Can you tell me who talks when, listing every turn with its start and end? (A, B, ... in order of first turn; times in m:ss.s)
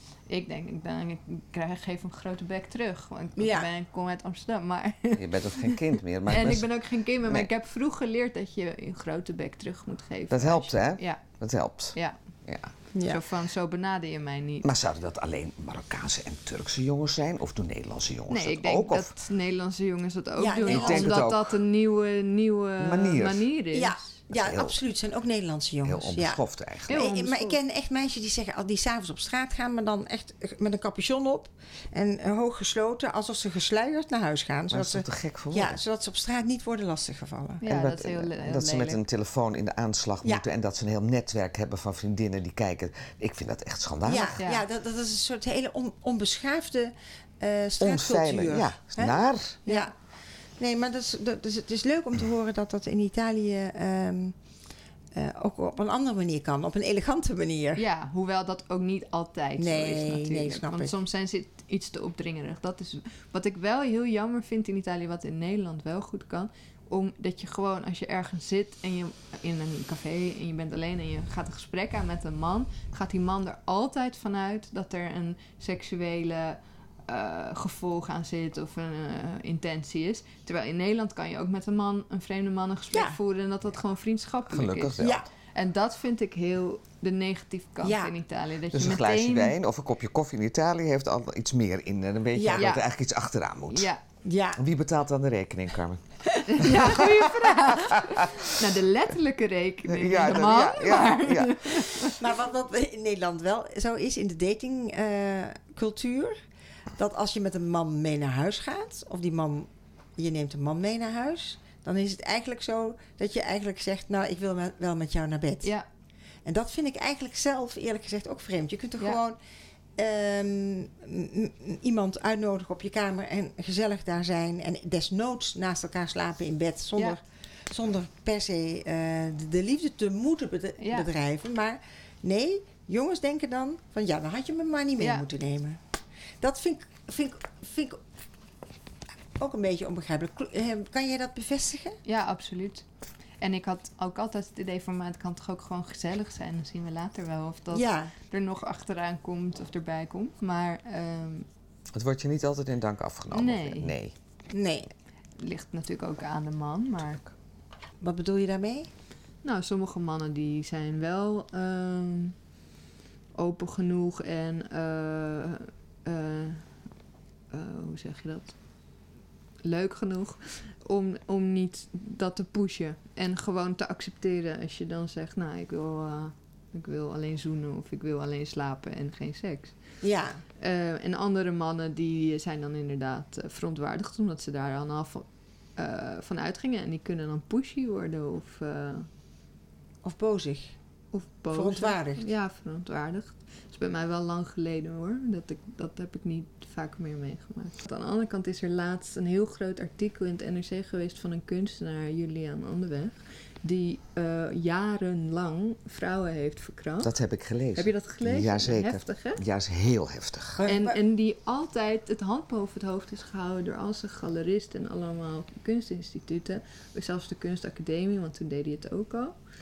0:00.3-0:11.2 A
0:03.4-0:03.7 B
0:05.2-0:07.5 C
0:10.3-0:12.0 C
0:12.9-0:13.2 B
0:13.0-0:14.7 A
0:14.6-0:19.1 C
0:18.3-0:24.1 A
0:20.4-0:21.2 B
0:20.6-0:21.6 C
0:22.8-0:23.5 C
0:23.7-0:37.6 B
0:24.3-0:24.8 C
0:25.8-0:26.9 C
0:26.9-0:27.6 A
0:34.7-0:35.8 C
0:37.6-0:39.0 A
0:37.6-0:44.4 C
0:44.0-0:49.9 B
0:47.8-0:49.6 C
0:50.6-0:54.3 B
0:55.1-0:57.8 B
0:57.8-1:29.5 A
0:59.6-1:00.9 B
1:22.9-1:23.2 B
1:24.5-1:25.2 C
1:25.0-1:25.2 B
1:27.8-1:28.1 B
1:28.7-1:33.9 C
1:32.3-1:32.7 B
1:32.6-1:32.8 A
1:33.7-1:34.0 A
1:34.2-1:34.6 B
1:34.6-1:38.6 C
1:36.4-1:42.2 A
1:39.9-1:42.1 C
1:42.2-1:46.4 B
1:47.0-1:55.7 B
1:56.4-1:59.4 B
2:00.0-2:15.8 B
2:10.8-2:11.1 A
2:16.4-2:18.0 B
2:19.4-2:22.0 B
2:22.0-2:22.8 A
2:23.4-2:31.5 A
2:27.7-2:28.1 B
2:31.9-2:34.1 C
2:33.3-2:33.9 A
2:34.5-2:34.9 B
2:35.4-2:37.2 A
2:38.0-2:38.9 B
2:39.4-2:42.3 A
2:43.4-2:46.6 A
2:47.5-2:48.6 A
2:49.6-2:59.8 A
3:00.0-3:00.4 B
3:00.6-3:09.1 A
3:10.0-3:10.7 B
3:11.1-3:27.2 A
3:11.5-3:12.3 B
3:27.0-3:30.6 C
3:27.7-3:29.4 A
3:30.6-3:31.0 B
3:30.6-3:39.3 A